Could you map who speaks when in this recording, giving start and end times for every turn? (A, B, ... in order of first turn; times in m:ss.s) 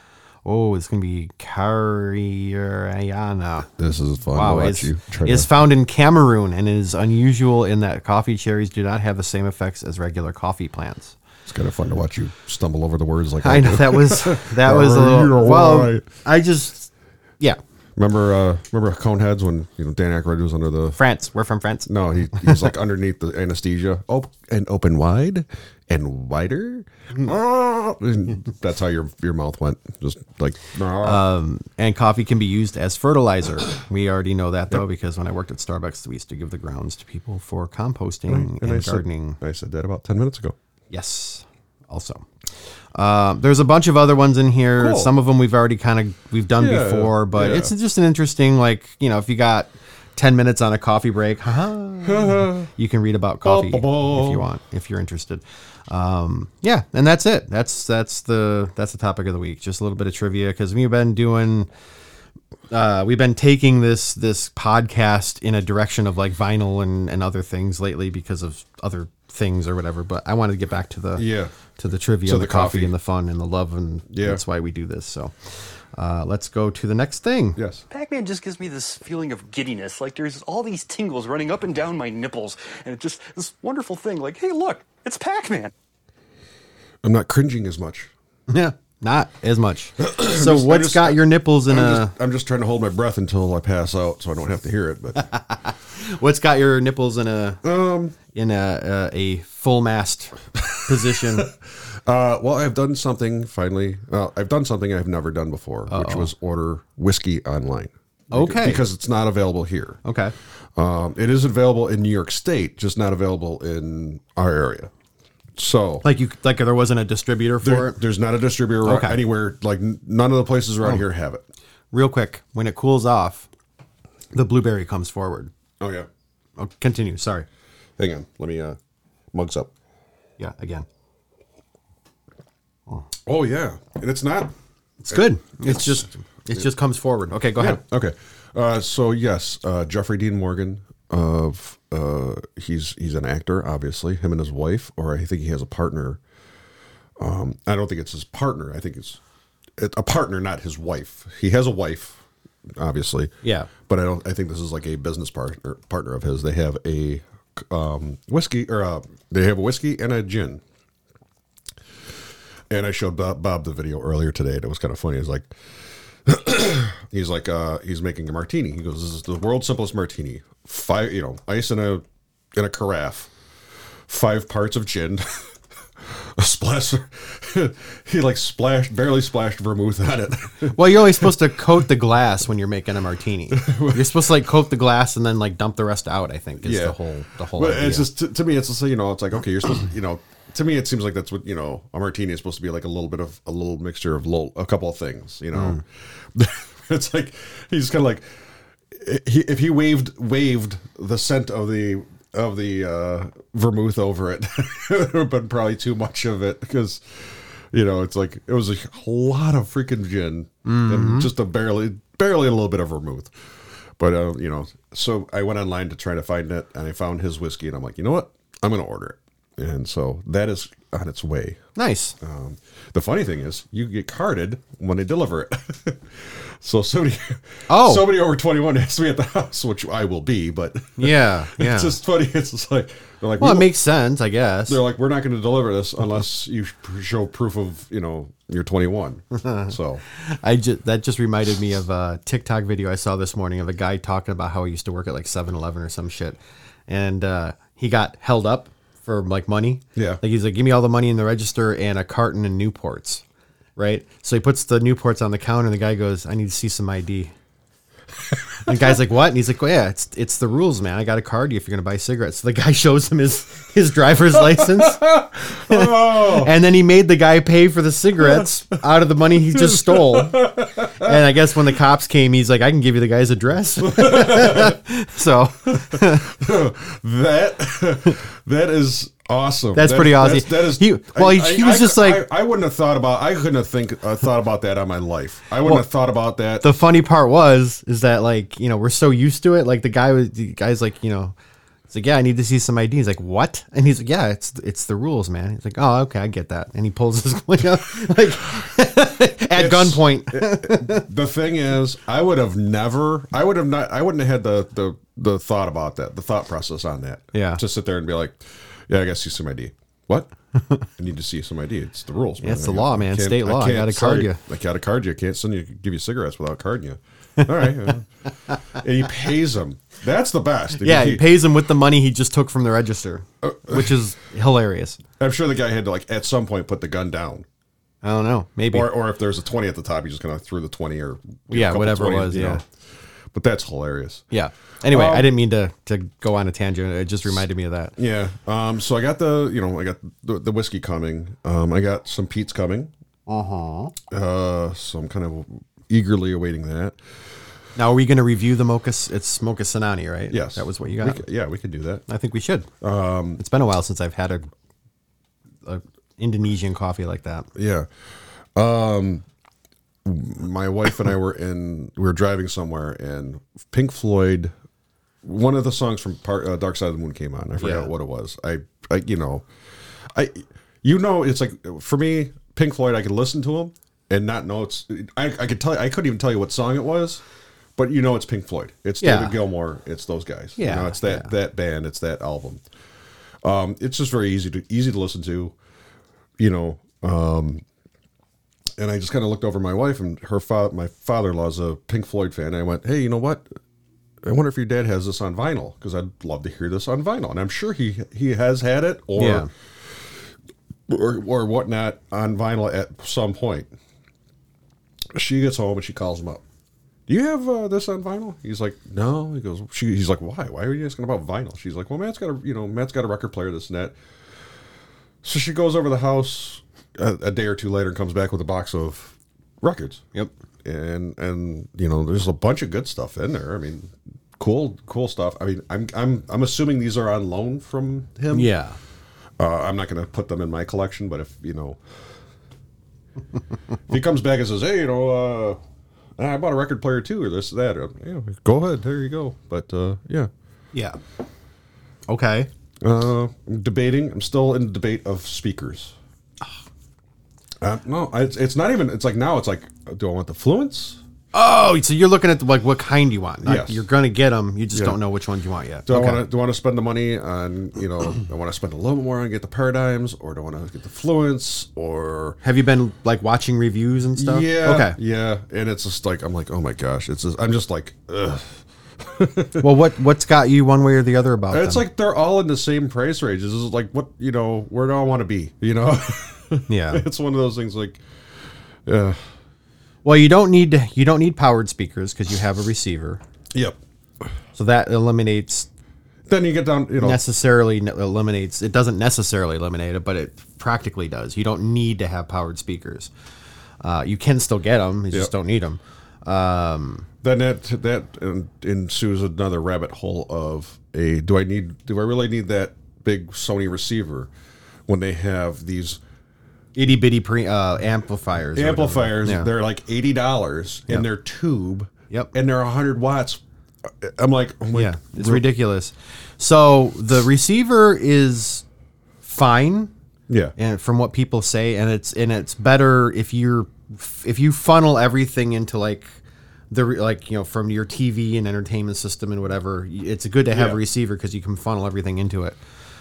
0:00.4-0:03.7 A
0:03.8-0:05.5 B
0:04.3-0:11.2 A
0:11.5-0:16.1 B
0:13.4-0:17.6 A
0:18.0-0:21.0 B
0:21.0-0:22.7 A
0:21.9-0:31.2 B
0:31.0-0:39.4 A
0:38.3-0:40.6 B
0:40.9-0:42.3 A
0:43.0-1:01.7 A
0:44.8-0:45.1 B
0:46.6-0:47.7 B
0:52.0-0:52.7 B
0:53.4-0:54.5 B
1:02.7-1:17.6 A
1:11.2-1:11.5 B
1:12.2-1:12.9 B
1:14.1-1:14.4 B
1:17.6-1:17.8 B
1:17.9-1:25.7 C
1:27.0-1:28.1 B
1:28.5-1:32.1 A
1:30.0-1:35.3 B
1:35.2-1:37.6 A
1:37.6-1:38.2 B
1:38.3-1:41.5 A
1:40.7-1:50.0 B
1:45.9-1:46.3 A
1:48.3-1:48.8 A
1:50.0-1:50.3 A
1:50.8-1:54.9 B
1:55.6-1:56.0 B
1:56.0-1:58.0 A
1:57.6-2:01.4 B
1:58.8-1:59.2 A
2:01.9-2:03.5 A
2:04.3-2:05.5 A
2:05.8-2:06.1 B
2:06.6-2:07.5 A
2:08.0-2:08.8 B
2:09.3-2:09.7 B
2:10.4-2:10.9 A
2:13.3-2:14.5 B
2:15.0-2:17.8 A
2:15.1-2:16.6 B
2:17.6-2:26.2 B
2:27.2-2:29.2 B
2:29.8-2:32.2 B
2:32.8-2:40.6 B
2:33.4-2:33.7 A
2:42.7-2:45.5 B
2:46.2-2:53.3 B
2:54.1-3:01.3 B
3:00.7-3:08.1 A
3:03.5-3:04.2 B
3:06.6-3:07.0 B
3:07.6-3:33.3 B
3:15.5-3:15.8 A
3:30.6-3:31.3 A
3:34.0-3:41.6 B
3:41.8-3:42.2 A
3:42.2-3:53.7 B
3:47.7-3:48.1 A
3:51.0-3:52.0 A
3:53.4-3:54.8 A
3:54.7-4:00.0 B
3:59.4-4:13.2 A
4:10.0-4:10.2 B
4:13.8-4:17.3 A
4:18.6-4:36.3 A
4:24.6-4:26.5 B
4:28.2-4:28.5 B
4:29.5-4:31.2 B
4:33.8-4:34.8 B
4:35.7-4:46.7 B
4:39.8-4:42.2 A
4:46.6-4:51.4 A
4:51.9-5:01.0 A
4:59.6-5:10.3 B
5:07.3-5:07.6 A
5:10.6-5:10.9 A
5:11.0-5:21.3 B
5:12.4-5:14.4 A
5:20.8-5:25.0 A
5:23.4-5:24.0 B
5:25.2-5:27.5 B
5:28.0-5:28.9 A
5:28.7-5:32.6 B
5:31.5-5:32.6 A
5:33.3-5:34.3 B
5:34.3-5:37.9 A
5:34.9-5:35.3 B
5:38.0-5:42.9 B
5:43.3-5:43.9 A
5:44.1-5:47.0 B
5:47.8-5:51.2 A
5:50.3-5:52.0 B
5:52.1-5:52.7 A
5:52.8-5:53.4 B
5:53.4-5:54.5 A
5:55.6-5:57.5 A
5:57.6-5:57.9 B
5:58.6-5:59.2 B
6:00.0-6:04.5 B
6:05.2-6:09.5 B
6:07.6-6:07.9 A
6:10.1-6:17.2 B
6:17.8-6:22.6 B
6:19.0-6:19.4 A
6:20.6-6:21.3 A
6:23.4-6:25.6 B
6:26.4-6:27.6 B
6:28.8-6:33.5 B
6:34.2-6:39.5 B
6:39.2-6:39.5 A
6:40.9-6:43.7 B
6:45.1-6:46.4 B
6:47.1-6:54.0 B
6:55.2-7:00.0 B
7:00.6-7:08.5 B
7:08.3-7:08.8 A
7:09.4-7:11.8 B
7:13.9-7:15.6 B
7:16.2-7:20.3 B
7:22.1-7:22.5 A
7:22.8-7:26.0 B
7:27.6-7:31.0 B
7:31.3-7:36.2 A
7:33.4-7:33.8 B
7:35.9-7:42.4 B
7:42.4-7:45.0 A
7:44.2-7:49.7 B
7:49.6-7:51.9 A
7:51.5-7:58.0 B
7:56.7-7:57.0 A
7:58.9-7:59.2 B
8:00.0-8:03.2 A
8:03.5-8:03.8 B
8:04.6-8:05.7 A
8:06.3-8:07.2 B
8:07.0-8:13.1 A
8:13.8-8:17.1 A
8:17.2-8:24.3 B
8:24.9-8:26.0 B
8:26.8-8:29.5 A
8:28.6-8:35.4 B
8:34.7-8:38.6 A
8:39.2-8:39.9 A
8:40.3-8:40.6 B
8:40.6-8:46.2 A
8:46.7-8:52.6 A
8:50.5-8:50.8 B